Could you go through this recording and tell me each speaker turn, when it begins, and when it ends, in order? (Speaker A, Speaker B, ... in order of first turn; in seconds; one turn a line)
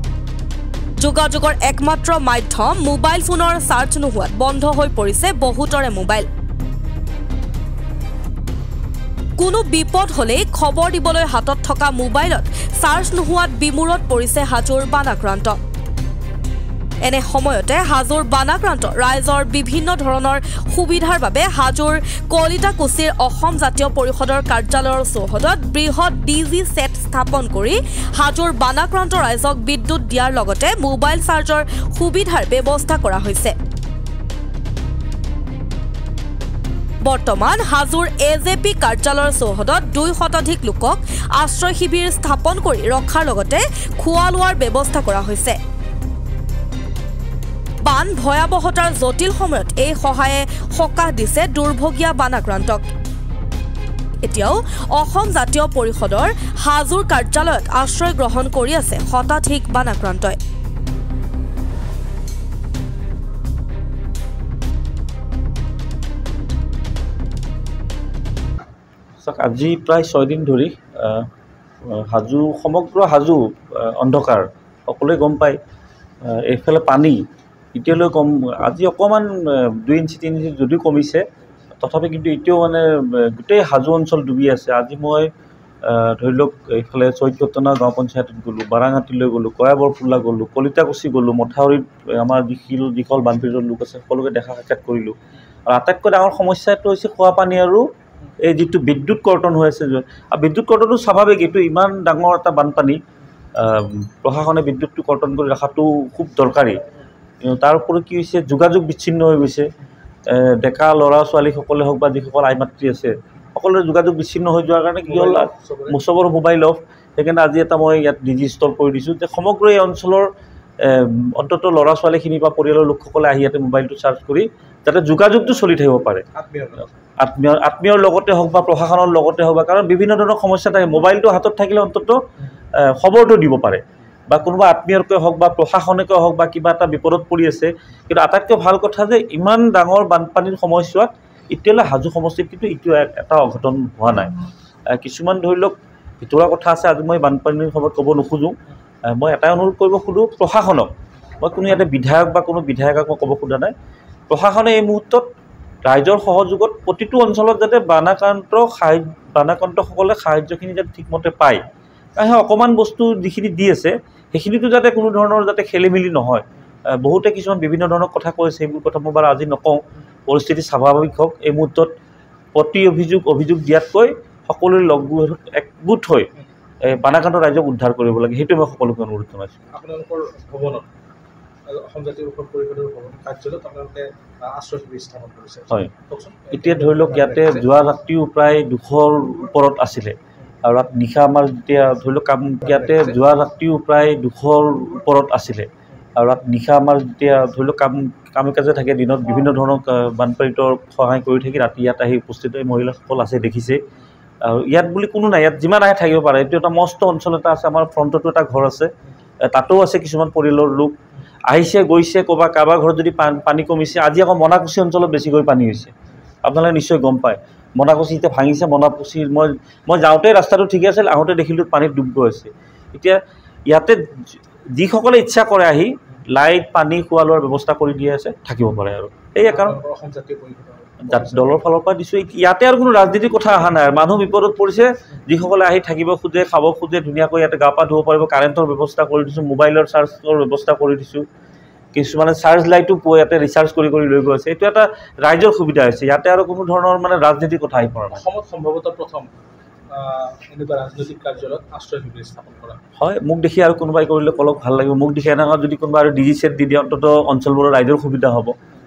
Speaker A: 1.0-6.3
Speaker A: 9.4-15.6
Speaker A: 17.0-33.5
Speaker A: 37.0-45.6
Speaker A: 47.8-52.9
Speaker A: 54.2-60.4
Speaker B: 69.2-71.3
Speaker B: 71.9-75.6
Speaker B: 76.2-77.2
Speaker B: 77.7-81.2
Speaker B: 81.8-85.3
Speaker B: 85.8-95.2
Speaker B: 95.7-97.8
Speaker B: 98.4-103.0
Speaker B: 103.5-106.8
Speaker B: 107.4-109.7
Speaker B: 110.3-120.3
Speaker C: 115.1-116.0
Speaker B: 120.8-126.2
Speaker C: 126.3-126.8
Speaker B: 127.2-132.2
Speaker B: 132.8-144.3
Speaker B: 144.9-148.5
Speaker B: 149.1-153.7
Speaker B: 154.3-155.3
Speaker B: 155.8-161.6
Speaker B: 162.2-171.9
Speaker B: 172.5-176.3
Speaker B: 176.8-179.5
Speaker C: 179.7-180.9
Speaker C: 181.7-187.6
Speaker B: 186.5-203.8
Speaker B: 204.4-208.9
Speaker B: 209.4-210.9
Speaker B: 211.5-215.9
Speaker B: 216.4-224.0
Speaker B: 224.7-229.8
Speaker C: 229.5-231.5
Speaker B: 231.0-241.2
Speaker B: 241.9-248.2
Speaker C: 248.1-249.3
Speaker C: 249.9-252.8
Speaker B: 253.0-258.5